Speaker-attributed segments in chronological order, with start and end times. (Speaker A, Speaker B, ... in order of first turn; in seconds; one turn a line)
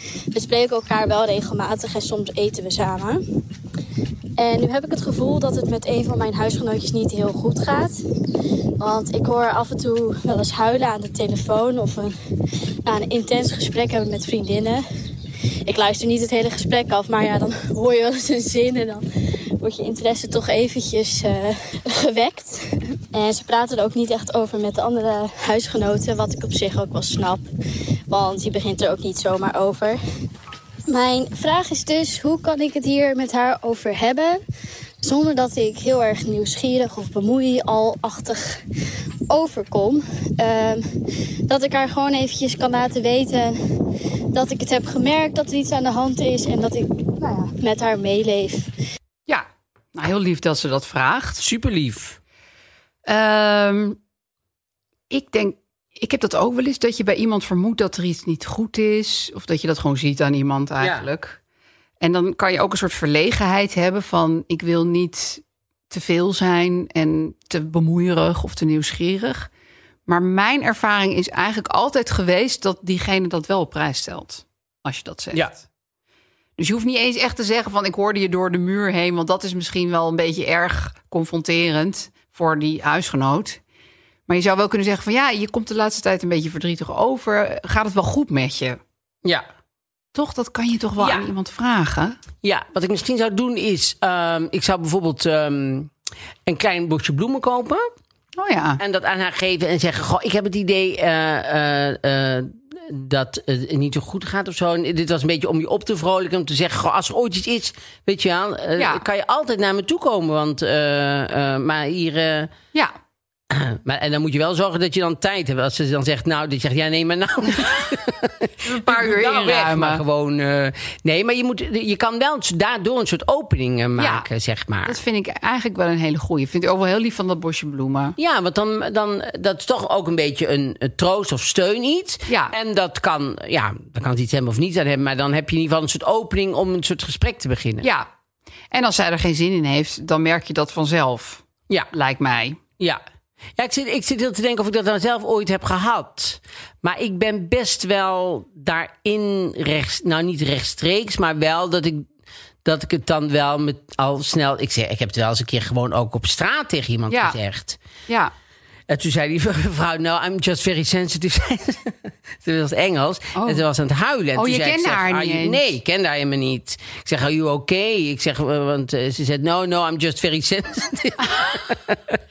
Speaker A: 0.3-3.2
Speaker A: 4.4-8.0
Speaker A: 8.8-12.1
Speaker A: 12.8-14.8
Speaker A: 15.7-19.0
Speaker A: 19.6-27.4
Speaker A: 28.1-30.0
Speaker A: 30.9-34.4
Speaker A: 35.0-38.6
Speaker A: 39.3-40.8
Speaker A: 41.5-43.5
Speaker A: 44.3-48.7
Speaker B: 49.3-51.4
Speaker C: 51.4-52.2
Speaker B: 53.1-54.0
Speaker B: 55.1-61.4
Speaker C: 60.8-61.1
Speaker B: 62.0-69.5
Speaker B: 70.1-75.6
Speaker B: 76.6-83.6
Speaker B: 84.3-88.8
Speaker B: 90.1-92.2
Speaker C: 91.0-91.2
Speaker C: 92.4-95.9
Speaker C: 96.5-97.9
Speaker B: 98.4-98.8
Speaker C: 98.8-112.5
Speaker B: 108.8-109.0
Speaker C: 113.5-125.0
Speaker B: 118.6-120.0
Speaker B: 124.0-124.2
Speaker B: 124.8-128.2
Speaker C: 128.2-137.9
Speaker B: 132.3-132.5
Speaker B: 137.8-138.1
Speaker B: 138.7-142.6
Speaker C: 143.6-152.1
Speaker C: 152.6-157.8
Speaker B: 157.1-157.4
Speaker C: 158.9-172.2
Speaker B: 163.3-163.6
Speaker B: 164.3-165.7
Speaker B: 171.2-171.5